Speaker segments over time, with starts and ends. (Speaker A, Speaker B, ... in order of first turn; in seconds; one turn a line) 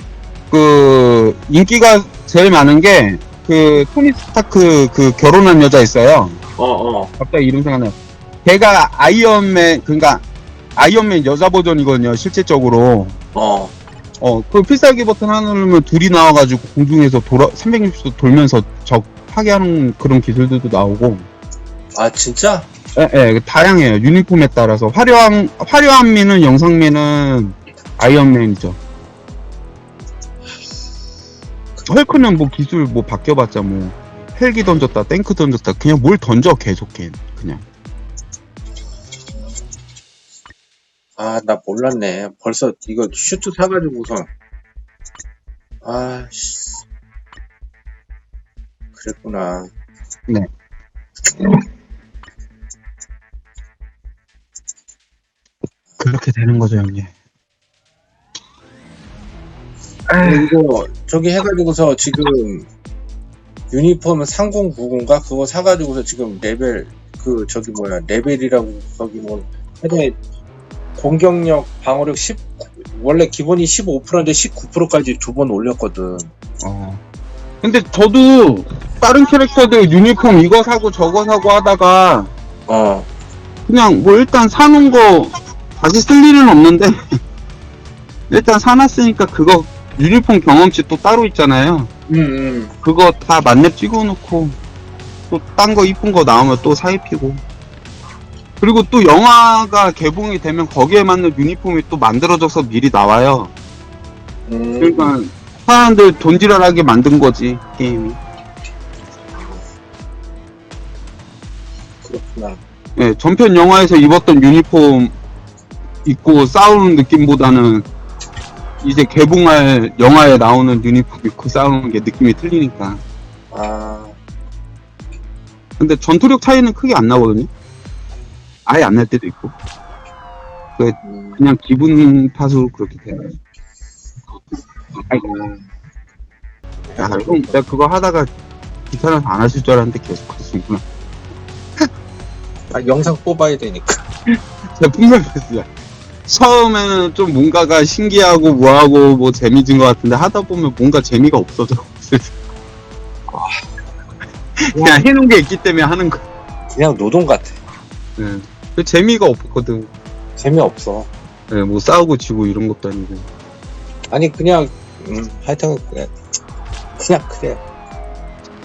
Speaker A: 0.5-6.4
Speaker B: 6.6-7.1
Speaker A: 7.2-10.2
Speaker A: 10.8-13.2
Speaker B: 13.3-13.7
Speaker A: 14.2-21.3
Speaker B: 21.9-22.7
Speaker A: 22.9-28.8
Speaker A: 31.9-37.6
Speaker B: 41.2-44.3
Speaker B: 45.8-46.8
Speaker B: 49.0-49.7
Speaker A: 56.0-57.1
Speaker A: 60.1-60.5
Speaker B: 60.2-62.7
Speaker B: 63.7-70.2
Speaker B: 71.0-76.3
Speaker A: 76.6-77.0
Speaker A: 77.6-82.3
Speaker B: 82.7-83.1
Speaker A: 83.7-87.2
Speaker A: 88.3-91.9
Speaker B: 92.1-92.7
Speaker A: 92.8-94.6
Speaker A: 95.3-97.4
Speaker A: 98.6-103.5
Speaker B: 104.5-105.1
Speaker A: 104.8-108.2
Speaker B: 109.3-109.6
Speaker B: 112.0-112.6
Speaker A: 113.0-115.1
Speaker A: 116.0-117.8
Speaker A: 118.8-123.0
Speaker B: 123.5-124.1
Speaker A: 125.8-127.5
Speaker A: 128.7-129.5
Speaker A: 130.8-133.3
Speaker B: 131.0-131.4
Speaker A: 135.1-135.5
Speaker B: 136.9-137.6
Speaker A: 137.0-138.3
Speaker A: 138.9-140.8
Speaker B: 142.7-144.0
Speaker A: 144.7-145.7
Speaker A: 146.2-152.3
Speaker B: 153.3-153.6
Speaker A: 154.6-156.2
Speaker B: 154.7-155.0
Speaker B: 156.7-157.6
Speaker A: 158.2-159.9
Speaker B: 160.4-161.1
Speaker A: 161.5-163.3
Speaker B: 164.1-166.1
Speaker B: 167.0-167.6